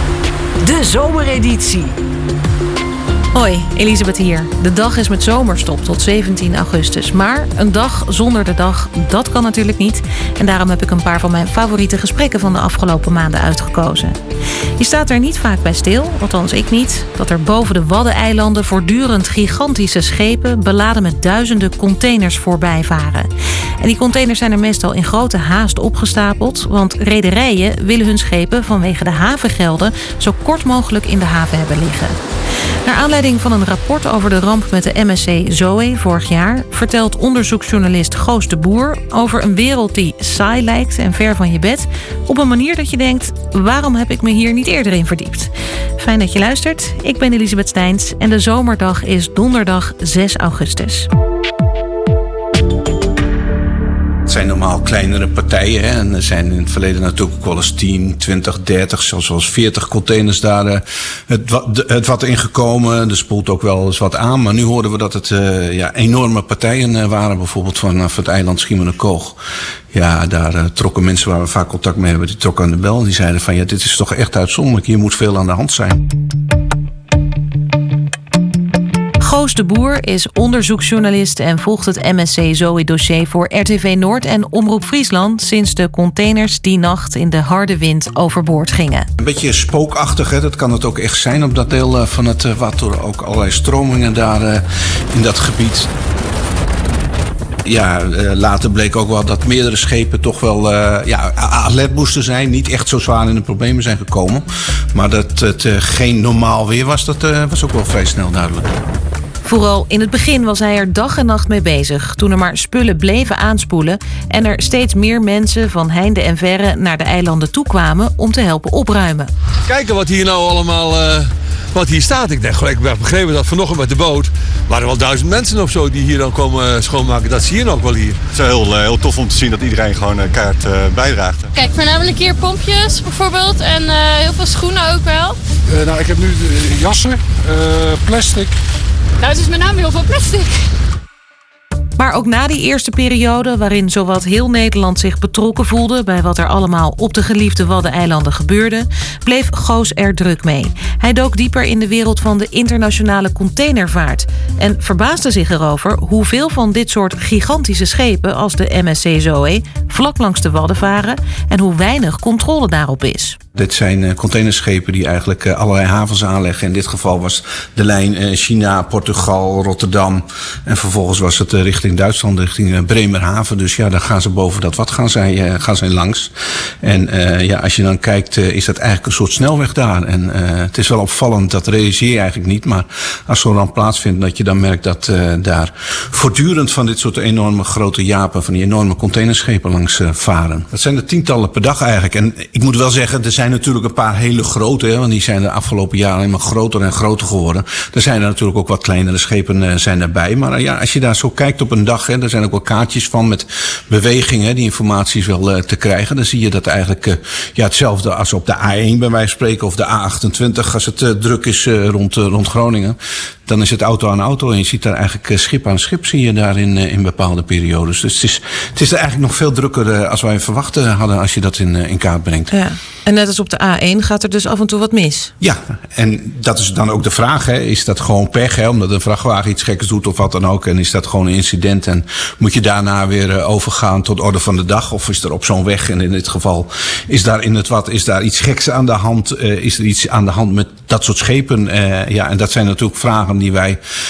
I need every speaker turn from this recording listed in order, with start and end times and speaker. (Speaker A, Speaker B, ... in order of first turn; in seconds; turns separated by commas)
Speaker A: 0.6-1.9, Speaker A: 3.3-14.2, Speaker A: 14.8-32.2, Speaker A: 32.8-51.1, Speaker B: 54.2-69.4, Speaker B: 69.9-76.0, Speaker A: 79.2-89.1, Speaker B: 89.2-95.9, Speaker B: 97.6-108.7, Speaker A: 109.4-119.3, Speaker C: 119.7-121.2, Speaker C: 121.7-128.1, Speaker D: 128.3-131.5, Speaker E: 131.5-135.4, Speaker F: 135.7-138.5, Speaker E: 139.2-140.5, Speaker A: 142.0-163.4, Speaker B: 163.5-222.5, Speaker A: 222.5-225.3, Speaker B: 225.4-243.8